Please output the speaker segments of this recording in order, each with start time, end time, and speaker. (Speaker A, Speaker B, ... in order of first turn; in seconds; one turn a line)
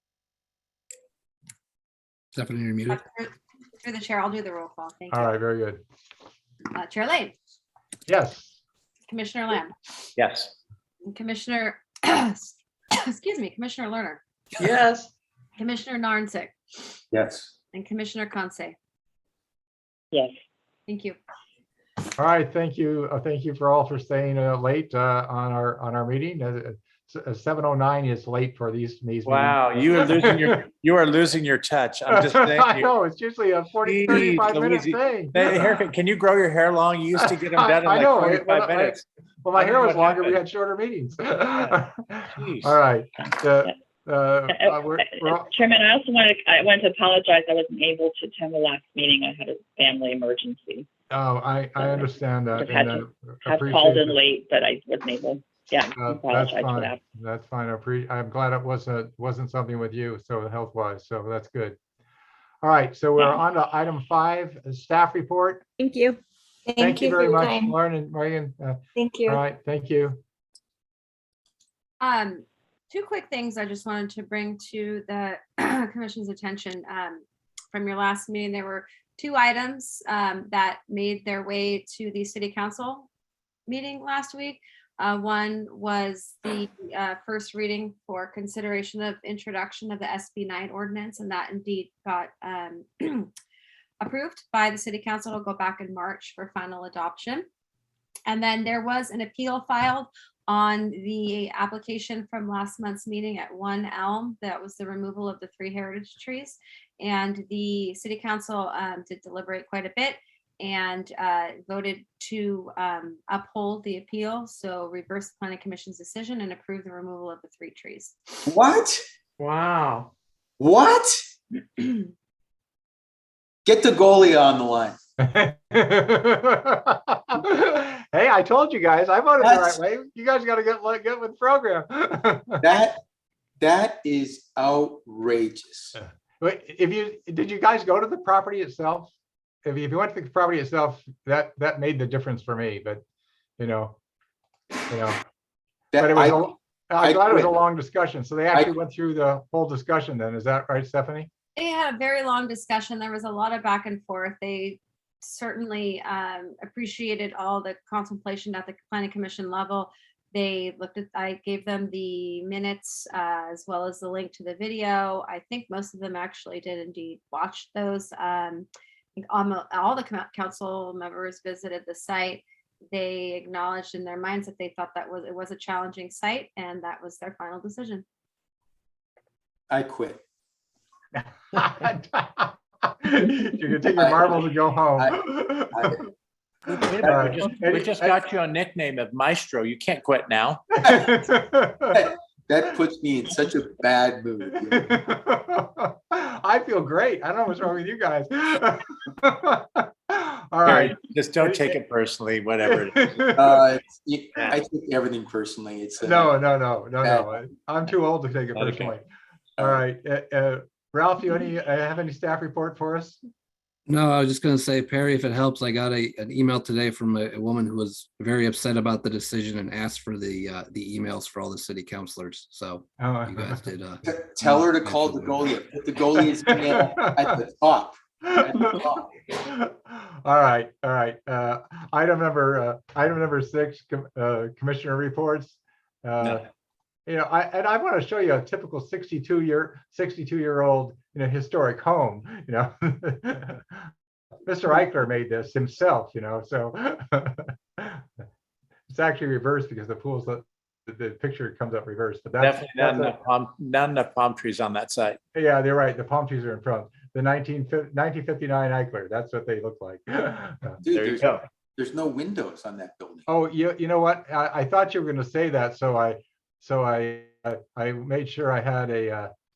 Speaker A: 2.4-3.0
Speaker B: 2.9-5.3
Speaker C: 5.1-5.8
Speaker B: 6.8-7.3
Speaker C: 8.1-8.6
Speaker B: 9.1-9.7
Speaker D: 10.2-10.5
Speaker B: 11.1-14.2
Speaker D: 14.6-15.1
Speaker B: 15.6-16.6
Speaker E: 17.1-17.5
Speaker B: 17.7-18.8
Speaker B: 20.9-21.2
Speaker C: 22.2-30.6
Speaker D: 29.3-32.9
Speaker C: 32.1-35.7
Speaker D: 33.8-39.0
Speaker C: 37.2-45.5
Speaker D: 39.5-40.4
Speaker D: 42.3-42.8
Speaker F: 44.5-50.9
Speaker C: 51.1-54.2
Speaker F: 51.8-57.0
Speaker C: 56.0-61.8
Speaker C: 62.6-65.7
Speaker G: 65.8-67.8
Speaker C: 66.8-70.2
Speaker G: 69.0-69.4
Speaker B: 72.0-83.1
Speaker B: 83.7-93.3
Speaker B: 94.0-97.5
Speaker B: 98.3-118.2
Speaker E: 118.5-119.0
Speaker D: 119.4-120.1
Speaker E: 120.6-121.2
Speaker E: 123.7-125.0
Speaker C: 125.2-132.7
Speaker E: 129.4-129.8
Speaker E: 132.6-133.0
Speaker E: 133.6-135.9
Speaker C: 136.0-139.1
Speaker C: 139.7-143.0
Speaker C: 143.6-144.0
Speaker C: 144.9-145.2
Speaker E: 145.9-147.6
Speaker C: 146.0-151.3
Speaker B: 151.6-178.1
Speaker E: 179.7-180.2
Speaker C: 181.2-185.9
Speaker E: 184.0-184.4
Speaker E: 185.0-186.0
Speaker D: 186.7-190.7
Speaker C: 187.0-188.2
Speaker C: 190.8-192.1
Speaker E: 191.9-194.8
Speaker C: 194.6-201.8
Speaker D: 200.7-203.3
Speaker C: 202.7-203.6
Speaker E: 203.3-206.4
Speaker C: 206.0-209.1
Speaker E: 207.0-207.4
Speaker D: 208.5-208.9
Speaker C: 209.6-213.2
Speaker A: 213.9-225.4
Speaker C: 223.0-223.7
Speaker E: 224.1-229.1
Speaker C: 226.5-227.0
Speaker C: 228.2-236.5
Speaker C: 237.1-243.9
Speaker C: 244.5-248.1
Speaker C: 248.9-253.2
Speaker D: 252.4-255.2
Speaker C: 255.3-260.8
Speaker E: 260.8-263.2
Speaker D: 260.9-261.4
Speaker C: 263.3-269.3